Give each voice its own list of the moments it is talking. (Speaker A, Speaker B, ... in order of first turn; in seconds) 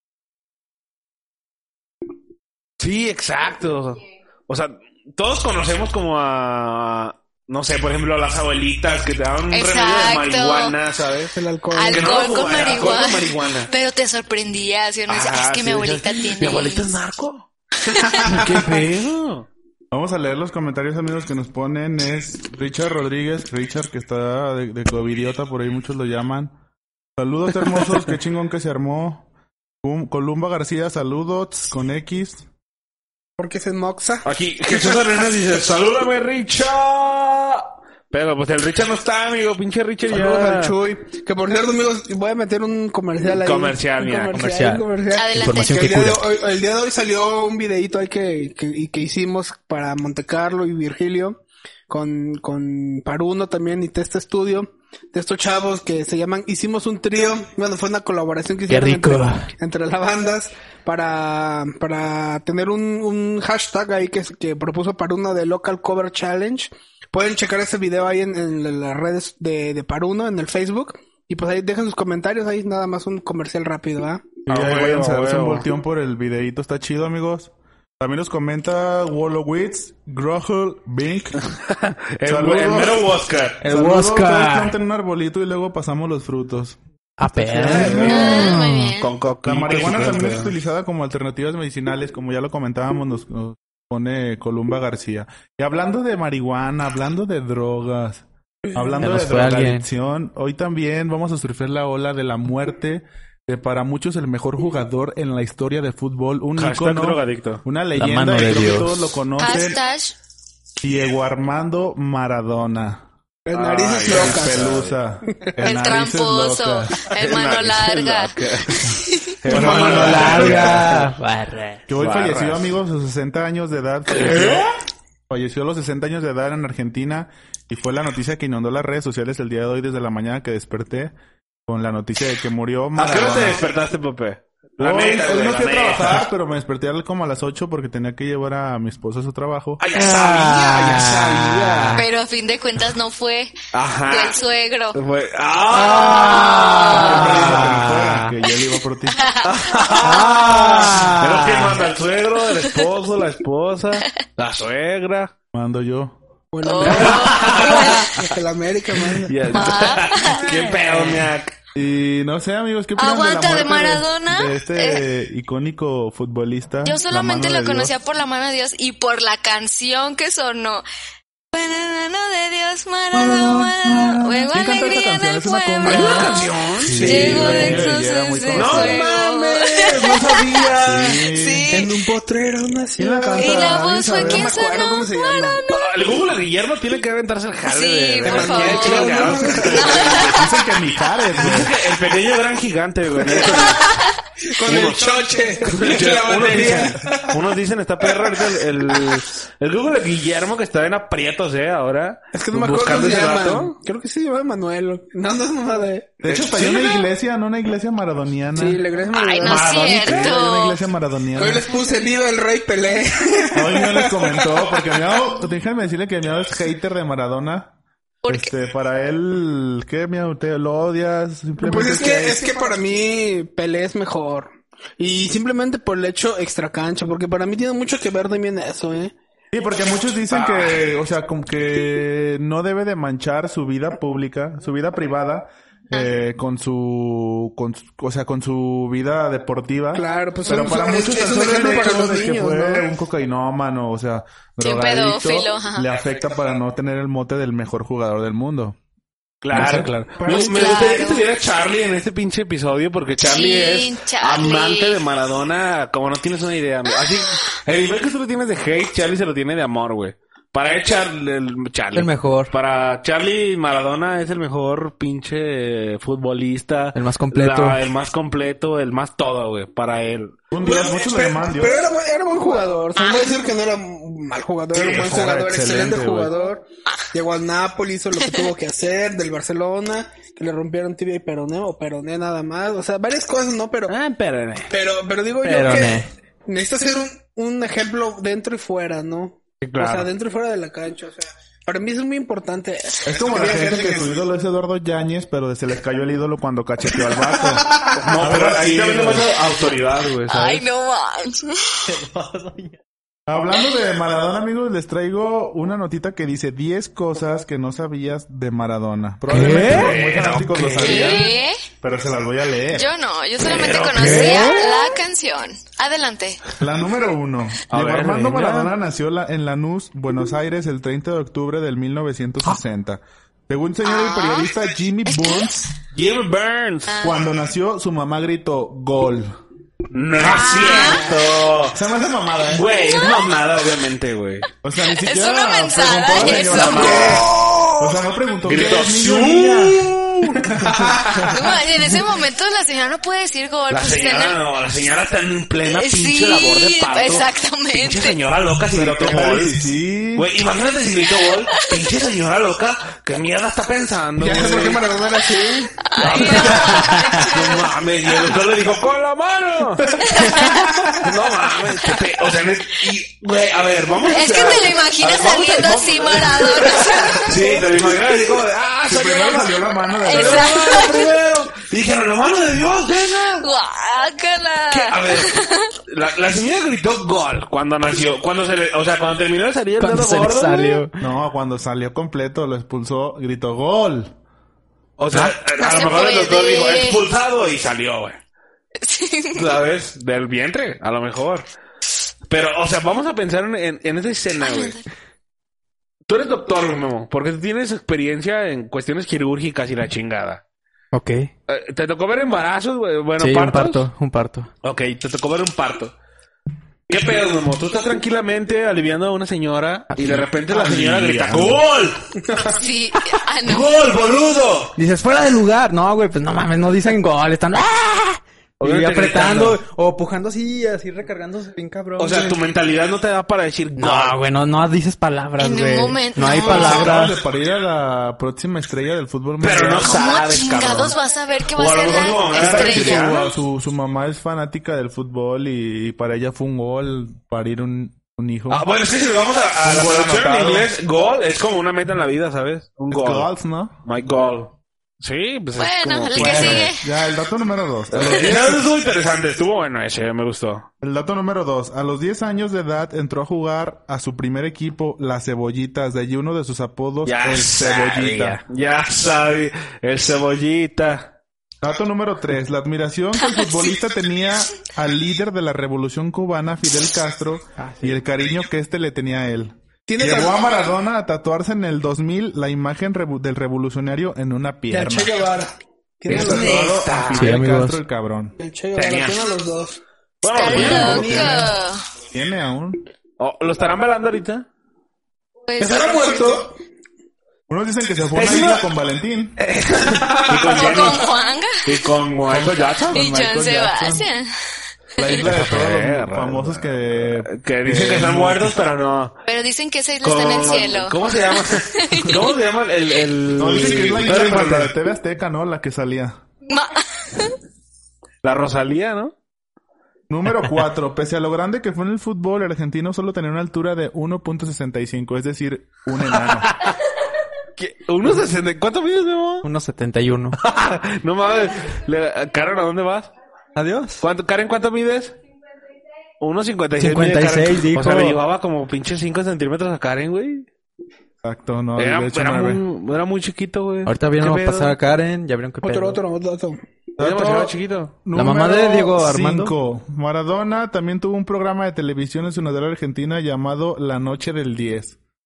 Speaker A: 2.8-11.3, 11.9-13.7, 15.1-17.5, 18.2-19.5, 34.2-40.7, 43.4-44.4, 74.5-75.7, 81.7-84.7, 87.5-90.5, 106.6-107.6, 113.5-115.0, 117.1-121.0, 121.9-122.7, 124.1-124.7, 132.9-136.2, 139.8-142.0, 143.7-144.4, 144.9-148.0, 149.4-155.3, 156.8-158.2, 159.3-161.5, 175.8-177.9, 178.5-181.2, 185.7-190.5, 191.4-193.9, 194.6-203.7, 209.5-210.3, 230.3-230.8, 249.4-270.4, 283.9-284.7, 289.6-290.1, 297.9-300.6, 309.5-311.2, 313.4-314.8, 317.7-318.7, 325.9-326.9, 329.9-331.8, 332.5-334.5, 336.2-337.8, 338.4-340.4, 343.7-354.8, 356.0-360.3, 360.9-373.5, 374.7-380.9, 385.0-388.2, 389.3-391.4, 392.3-394.8, 396.1-400.4, 401.5-403.9, 404.6-405.9, 406.9-412.1, 413.4-414.7, 418.6-419.6, 422.0-424.2, 429.4-430.9, 431.5-433.2, 438.5-443.3, 443.8-446.7, 447.9-450.7, 457.0-461.1, 476.1-477.4, 478.8-479.2, 480.2-481.4, 483.2-484.5, 488.1-488.7, 489.4-491.1, 491.6-493.0, 495.1-499.2, 500.0-504.7, 508.2-509.1, 516.2-516.7, 517.6-519.5, 520.4-523.1, 524.0-525.1, 526.2-530.5, 531.8-534.8, 537.0-537.9
Speaker B: 9.5-10.8, 11.7-16.9, 17.9-18.5, 45.1-46.0, 87.8-89.1, 109.4-110.2, 115.6-119.4, 141.9-145.0, 146.2-147.4, 149.1-150.2, 156.6-158.3, 159.5-160.6, 163.0-165.1, 166.8-170.8, 171.5-176.4, 177.0-181.9, 183.3-185.8, 187.7-190.4, 193.8-194.1, 209.1-210.8, 218.2-218.5, 244.6-245.9, 250.2-251.3, 253.2-255.0, 273.0-273.3, 300.3-301.9, 310.8-311.6, 312.7-316.4, 323.8-324.5, 325.1-325.7, 326.9-327.2, 330.2-331.1, 332.9-333.2, 334.9-337.3, 341.3-344.4, 345.6-348.2, 351.3-351.7, 355.9-357.7, 360.0-360.7, 364.0-368.0, 370.0-371.1, 373.3-375.7, 385.5-387.1, 388.8-389.5, 394.4-394.8, 412.6-413.7, 425.4-426.9, 429.8-433.3, 445.5-446.8, 480.3-481.8, 485.5-486.4, 490.4-491.7, 492.9-494.3, 499.3-501.0, 501.5-502.2, 506.5-507.3
Speaker C: 11.3-12.3, 33.4-35.0, 40.1-74.3, 113.5-114.8, 119.6-120.4, 156.5-159.8, 160.6-161.1, 177.0-177.4, 181.7-185.6, 188.2-190.3, 193.2-193.9, 194.4-197.3, 198.0-199.2, 202.3-207.0, 208.6-210.3, 211.3-214.7, 221.6-229.1, 239.9-242.9, 250.2-250.8, 270.6-283.9, 284.7-294.2, 340.6-341.3, 354.2-356.6, 360.1-361.0, 412.3-412.6, 469.9-470.5, 474.7-476.8, 478.4-479.8, 480.6-481.3, 485.6-486.5, 535.6-536.6
Speaker D: 19.9-26.5, 27.2-29.2, 29.8-32.5, 74.5-81.4, 82.2-83.1, 83.6-86.8, 87.3-88.5, 89.4-109.8, 110.8-113.0, 114.0-117.1, 119.5-121.1, 121.9-124.7, 125.3-131.1, 131.7-133.6, 134.8-139.8, 146.9-149.2, 155.5-156.2, 161.7-167.9, 174.5-176.3, 176.8-179.0, 180.8-181.7, 183.0-184.5, 190.2-191.7, 206.2-208.8, 209.4-211.6, 213.5-217.7, 218.3-222.4, 229.5-248.8, 249.5-250.6, 270.5-271.8, 274.7-276.3, 293.0-299.3, 303.3-311.2, 311.8-312.9, 316.6-325.6, 327.0-329.4, 330.2-330.9, 331.7-332.6, 334.6-337.3, 337.8-339.8, 340.5-341.3, 348.7-350.3, 368.9-370.7, 381.0-384.1, 410.5-411.6, 426.3-430.0, 432.3-438.6, 439.6-440.7, 442.9-443.7, 446.1-448.7, 450.8-458.4, 461.6-475.1, 476.1-478.4, 480.4-481.5, 482.1-482.8, 487.5-489.4, 492.3-494.1, 495.0-498.5, 503.4-506.2, 510.1-516.5, 531.2-532.6, 537.0-545.0
Speaker E: 44.3-44.8, 45.3-46.2, 58.7-59.5, 83.7-84.5, 87.2-88.9, 99.0-99.8, 108.0-108.9, 119.5-121.8, 139.9-142.0, 145.7-148.3, 150.0-151.8, 160.9-161.1, 261.9-262.5, 266.9-267.8, 285.4-286.1, 301.9-302.7, 309.3-309.9, 310.5-311.0, 313.9-314.8, 379.8-380.9, 400.9-401.3, 403.2-404.5, 409.9-410.2, 414.8-422.4, 423.8-427.1, 467.6-468.0, 477.1-477.8, 519.4-520.4, 523.5-524.0, 526.8-528.2, 533.9-536.0, 538.1-539.5